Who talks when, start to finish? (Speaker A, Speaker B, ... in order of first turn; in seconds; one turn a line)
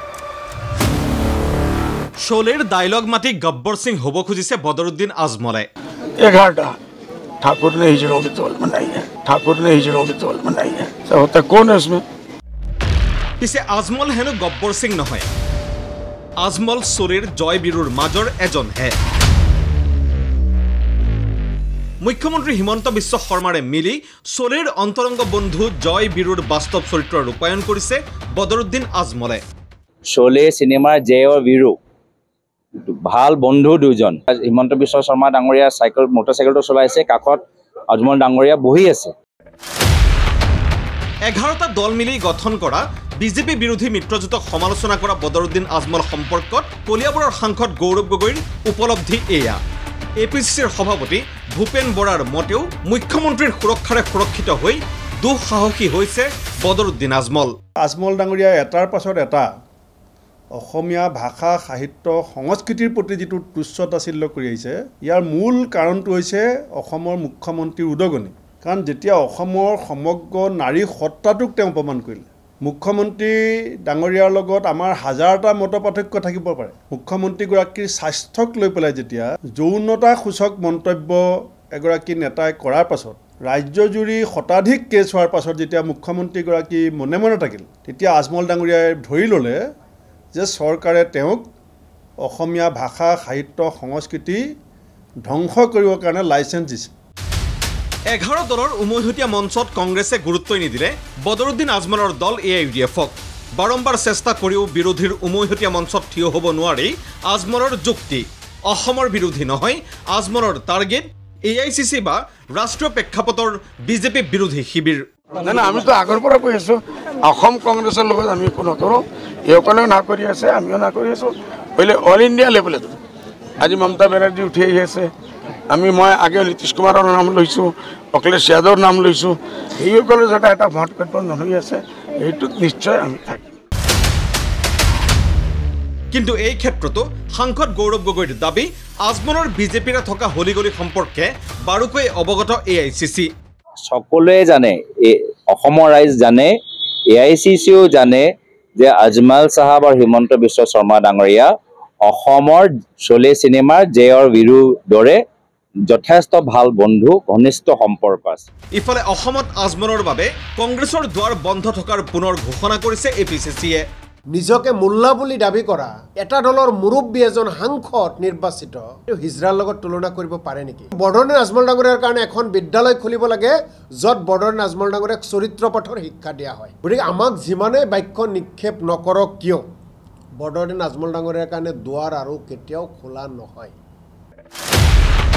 Speaker A: 2.2-5.7
Speaker B: 6.2-6.7
Speaker B: 7.4-12.0
Speaker A: 13.4-15.3
Speaker A: 16.4-19.0
Speaker A: 22.0-29.4
Speaker C: 30.1-31.8
Speaker C: 32.8-39.1
Speaker A: 41.3-49.6
Speaker A: 50.2-57.5
Speaker D: 57.8-59.5
Speaker D: 60.6-81.2
Speaker D: 81.8-89.6
Speaker D: 90.3-91.4
Speaker D: 92.2-94.4
Speaker D: 95.2-96.9
Speaker A: 98.1-115.0
Speaker B: 115.4-123.0
Speaker B: 123.6-125.1
Speaker B: 125.7-133.4
Speaker A: 136.1-143.3
Speaker C: 143.9-146.5
Speaker C: 147.1-148.3
Speaker C: 148.8-151.5
Speaker C: 152.0-155.2
Speaker C: 155.9-158.4
Speaker A: 158.8-163.8
Speaker E: 164.3-179.6
Speaker E: 180.4-183.7